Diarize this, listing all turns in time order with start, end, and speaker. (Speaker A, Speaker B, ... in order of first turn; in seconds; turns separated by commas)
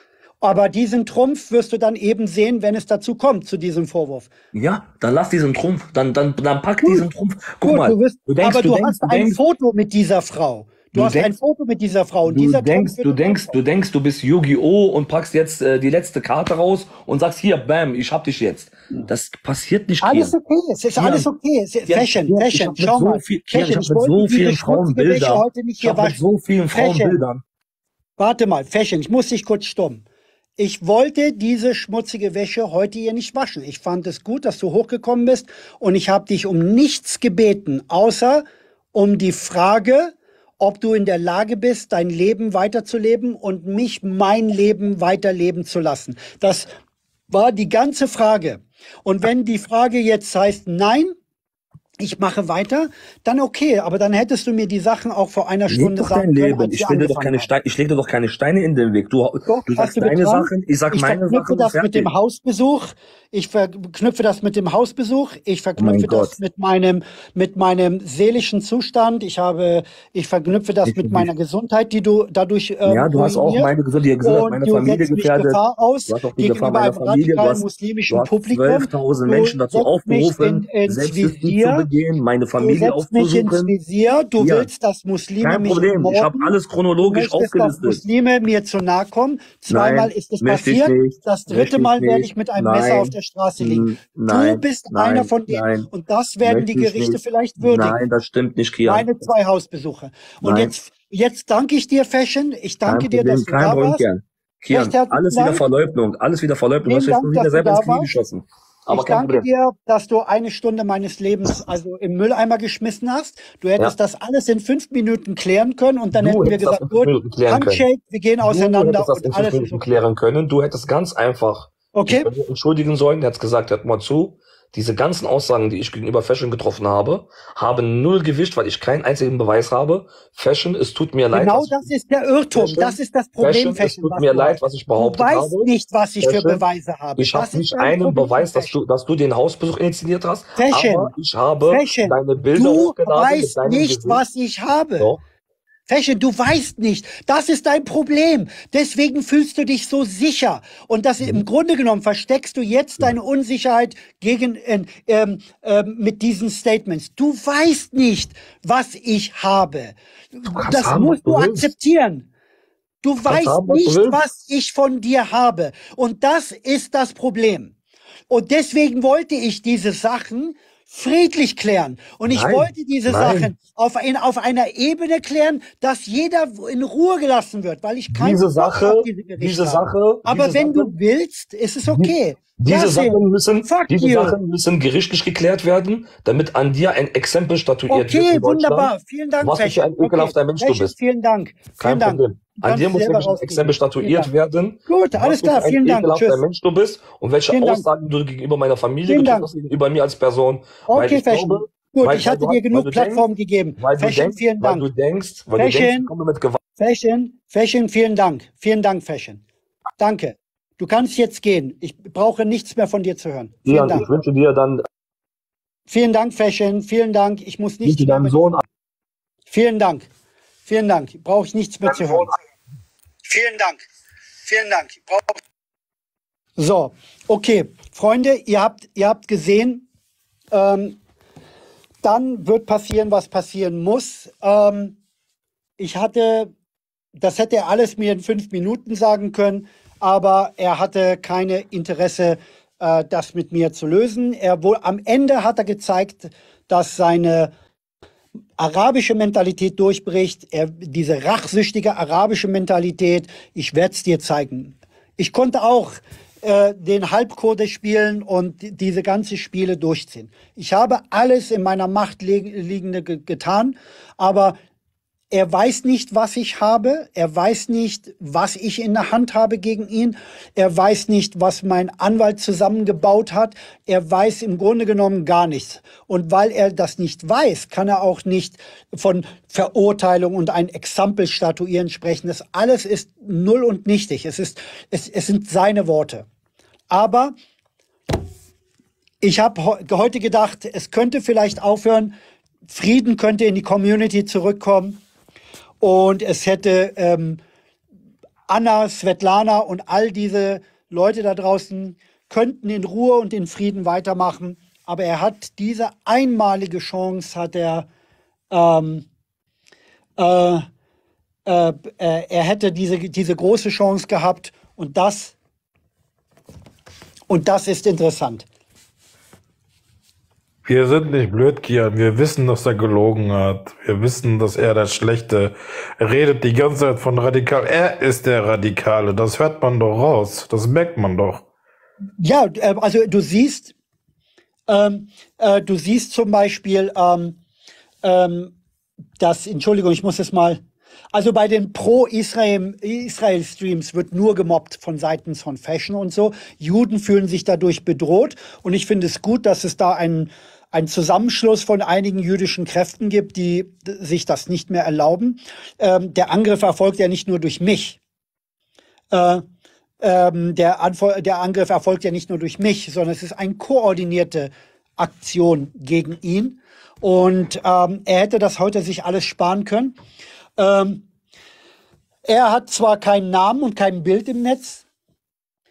Speaker A: 0.4-4.3, Speaker B: 4.5-9.4, Speaker A: 6.8-7.1, Speaker A: 7.6-13.5, Speaker B: 10.9-11.3, Speaker B: 12.3-20.3, Speaker A: 20.0-27.2, Speaker B: 21.0-21.3, Speaker B: 21.9-27.4, Speaker A: 28.2-30.0, Speaker A: 30.6-46.7, Speaker A: 47.3-51.1, Speaker A: 52.0-57.5, Speaker B: 55.7-62.1, Speaker A: 59.4-81.9, Speaker B: 65.8-66.3, Speaker B: 70.8-71.3, Speaker B: 72.8-83.7, Speaker A: 82.6-98.0, Speaker B: 84.4-84.7, Speaker B: 85.4-88.0, Speaker B: 89.7-95.9, Speaker B: 96.4-99.1, Speaker A: 98.8-104.0, Speaker B: 100.4-100.7, Speaker B: 102.8-109.4, Speaker A: 104.7-105.7, Speaker A: 106.8-108.1, Speaker A: 108.9-119.9, Speaker B: 116.1-117.8, Speaker B: 118.4-131.8, Speaker A: 121.9-122.3, Speaker A: 131.3-138.8, Speaker B: 132.5-136.6, Speaker B: 137.2-144.2, Speaker A: 140.6-141.1, Speaker A: 141.7-145.1, Speaker A: 145.9-162.3, Speaker B: 160.5-161.7, Speaker A: 163.0-167.7, Speaker B: 163.3-164.2, Speaker A: 168.3-184.4, Speaker B: 172.3-173.5, Speaker B: 178.1-180.9, Speaker B: 181.8-190.9, Speaker A: 187.9-194.3, Speaker B: 191.8-203.2, Speaker A: 194.9-196.4, Speaker A: 197.5-197.9, Speaker A: 199.0-199.5, Speaker A: 200.9-204.9, Speaker B: 203.8-206.6, Speaker A: 205.6-206.1, Speaker A: 206.8-209.4, Speaker A: 210.0-214.1, Speaker B: 213.6-214.8, Speaker A: 215.9-218.6, Speaker B: 217.8-218.6, Speaker A: 219.5-220.1, Speaker A: 220.7-222.3, Speaker B: 221.8-222.3, Speaker A: 223.2-223.8, Speaker A: 224.4-225.4, Speaker A: 226.6-229.8, Speaker A: 230.5-231.0, Speaker A: 232.0-235.0, Speaker A: 235.8-236.5, Speaker A: 237.2-247.5, Speaker A: 248.6-264.6, Speaker A: 265.3-286.2, Speaker A: 286.9-287.3, Speaker A: 289.2-292.1, Speaker A: 292.7-295.0, Speaker A: 295.8-297.4, Speaker A: 298.5-307.9, Speaker A: 308.5-309.1, Speaker A: 310.2-310.6, Speaker A: 311.4-315.4, Speaker A: 317.3-318.5, Speaker C: 320.6-331.4, Speaker A: 332.2-333.7, Speaker A: 334.7-337.4, Speaker A: 338.0-338.5, Speaker A: 339.2-340.6, Speaker A: 341.1-358.0, Speaker A: 359.1-359.4, Speaker A: 360.0-369.9, Speaker A: 370.6-371.0, Speaker A: 372.2-374.9